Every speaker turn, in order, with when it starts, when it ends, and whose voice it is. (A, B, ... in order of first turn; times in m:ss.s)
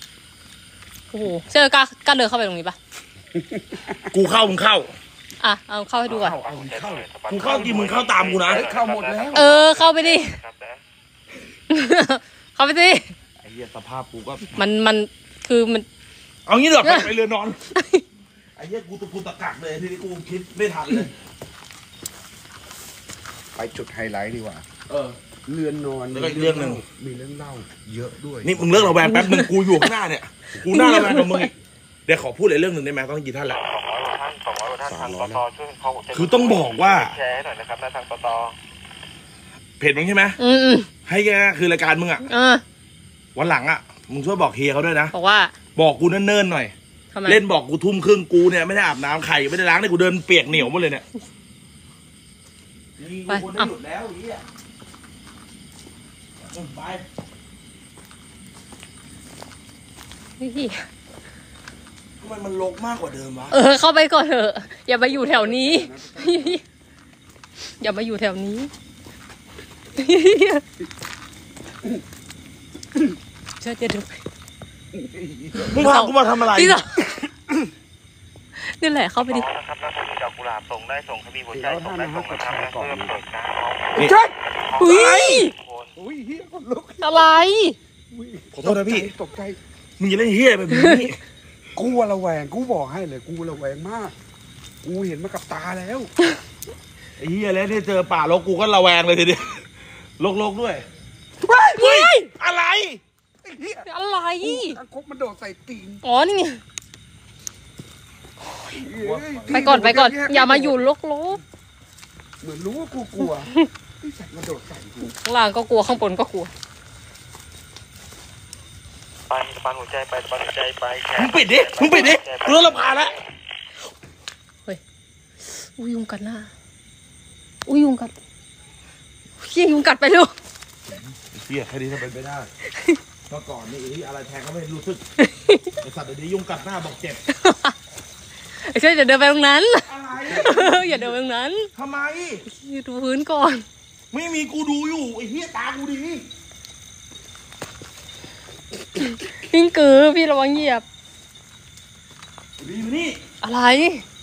0:01.1-0:02.8 A
0:03.3-0:04.1 B
0:04.1-0:04.9 C
0:05.4-0:06.4 A
0:06.1-0:07.1 B
0:06.4-0:10.8 D
0:07.2-0:08.7 C
0:08.5-0:09.5 B
0:09.3-0:10.4 A
0:11.7-0:13.1 A
0:13.4-0:14.5 C
0:14.5-0:15.8 A
0:16.4-0:17.6 C
0:16.8-0:17.1 A
0:17.7-0:18.0 A
0:18.6-0:21.1 C
0:23.5-0:24.7 B
0:24.9-0:25.2 C
0:25.4-0:29.0 B
0:26.1-0:26.8 C
0:28.4-0:31.5 C
0:29.0-0:29.9 A
0:30.6-0:31.5 A
0:32.0-0:33.6 C
0:33.5-0:38.5 D
0:34.9-0:35.4 B
0:36.1-0:37.2 C
0:39.8-0:40.4 C
0:40.4-0:40.9 A
0:41.0-0:42.2 C
0:42.2-0:42.6 A
0:43.3-0:45.1 C
0:45.1-0:45.5 A
0:45.8-0:46.7 C
0:47.1-0:47.4 A
0:47.2-0:51.0 C
0:53.0-0:54.4 C
0:53.3-0:53.7 A
0:56.5-0:57.0 C
1:00.4-1:00.8 A
1:02.2-1:03.6 C
1:03.5-1:06.6 A
1:05.1-1:06.6 B
1:07.8-1:08.7 A
1:09.9-1:10.6 A
1:13.6-1:14.2 A
1:14.9-1:15.9 B
1:15.6-1:17.1 A
1:15.6-1:16.8 C
1:18.6-1:19.4 A
1:19.3-1:24.0 D
1:21.5-1:23.2 B
1:24.0-1:24.3 B
1:24.6-1:25.9 D
1:24.8-1:25.5 A
1:24.9-1:25.4 C
1:26.0-1:27.2 B
1:27.0-1:27.8 A
1:28.1-1:29.6 B
1:28.5-1:29.1 C
1:30.0-1:31.2 C
1:30.7-1:31.0 A
1:31.8-1:34.1 B
1:34.8-1:36.1 B
1:37.2-1:39.7 C
1:40.2-1:40.8 C
1:41.7-1:43.0 C
1:41.7-1:42.3 A
1:43.4-1:43.9 B
1:43.8-1:44.8 A
1:44.4-1:46.0 B
1:46.0-1:46.6 A
1:48.7-1:50.8 B
1:48.9-1:50.0 C
1:49.5-1:51.4 A
1:52.4-1:55.1 B
1:55.2-1:56.5 A
1:59.3-2:03.0 D
2:01.2-2:03.2 C
2:05.5-2:06.5 A
2:07.6-2:08.1 A
2:09.4-2:10.3 A
2:11.1-2:12.5 C
2:13.3-2:15.0 C
2:15.2-2:15.7 A
2:15.8-2:17.2 C
2:17.3-2:17.7 A
2:18.6-2:21.7 A
2:19.9-2:21.0 C
2:20.2-2:20.6 B
2:21.7-2:22.4 C
2:22.5-2:23.6 A
2:24.1-2:26.2 C
2:29.0-2:30.8 A
2:32.6-2:33.2 C
2:33.4-2:34.0 A